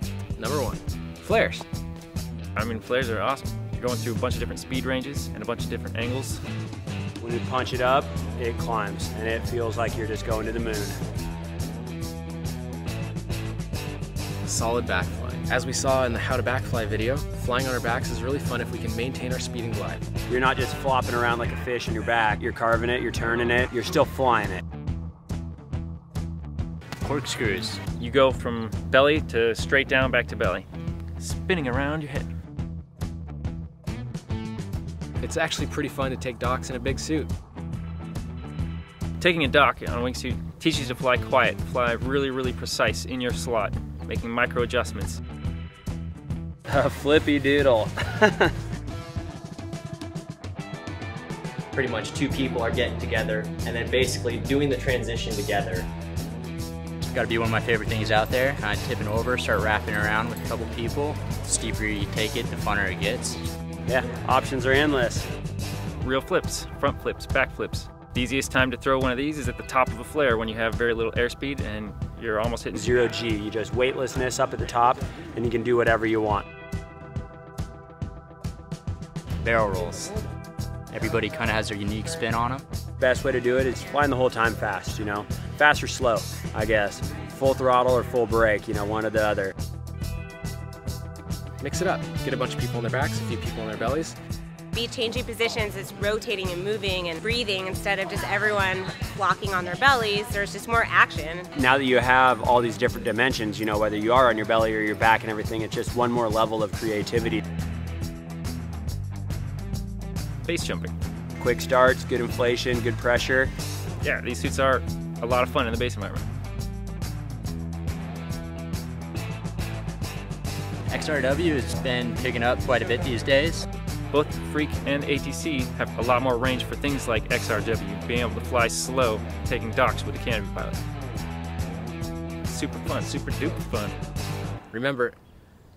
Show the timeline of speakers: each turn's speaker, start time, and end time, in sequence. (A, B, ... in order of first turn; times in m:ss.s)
0:00.4-0:01.6 A
0:02.5-0:06.4 B
0:07.2-0:11.0 C
0:14.4-0:20.0 A
0:20.3-0:24.6 C
0:27.0-0:27.8 D
0:28.0-0:30.7 B
0:31.2-0:32.3 B
0:35.2-0:37.3 A
0:39.2-0:45.2 B
0:46.7-0:48.5 C
0:51.7-0:55.9 E
0:57.0-1:03.4 D
1:03.9-1:05.2 C
1:06.0-1:13.1 B
1:12.7-1:16.4 C
1:19.4-1:20.1 D
1:20.9-1:22.6 D
1:23.0-1:29.5 C
1:31.6-1:34.2 A
1:34.7-1:41.5 F
1:41.6-1:47.4 C
1:50.4-1:50.9 B
1:51.4-1:53.5 C
1:54.0-1:56.2 B
2:00.9-2:03.6 D
2:04.1-2:10.8 B
2:12.4-2:14.0 B
2:14.7-2:15.2 A